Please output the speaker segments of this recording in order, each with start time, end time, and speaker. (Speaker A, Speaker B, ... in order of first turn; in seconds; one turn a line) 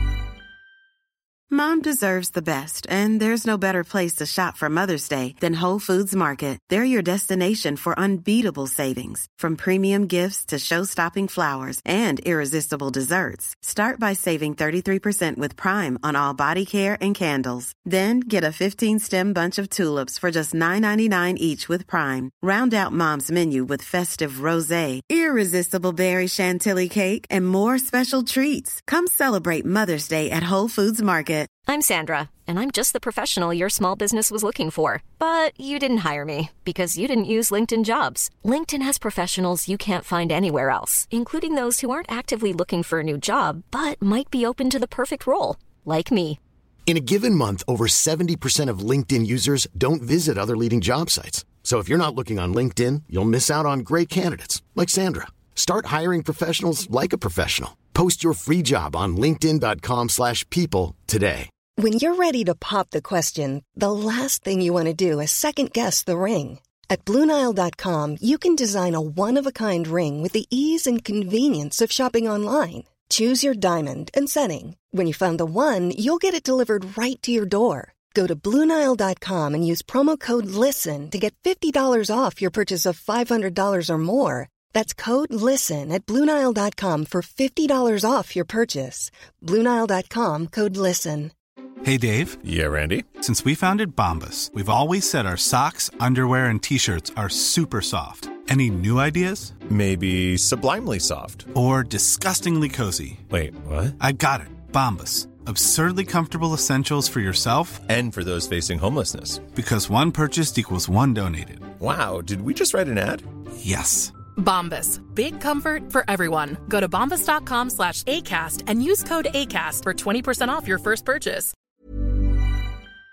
Speaker A: 1.5-31.5
Speaker B: 31.7-46.4
Speaker C: 46.9-61.5
Speaker D: 61.8-91.3
Speaker E: 91.8-92.4
Speaker F: 92.4-93.1
Speaker E: 93.2-99.5
Speaker F: 99.7-101.5
Speaker E: 101.5-103.2
Speaker F: 103.3-103.9
Speaker E: 104.0-107.8
Speaker F: 107.9-109.5
Speaker E: 109.5-111.7
Speaker F: 111.8-113.2
Speaker E: 113.6-114.1
Speaker G: 114.3-121.5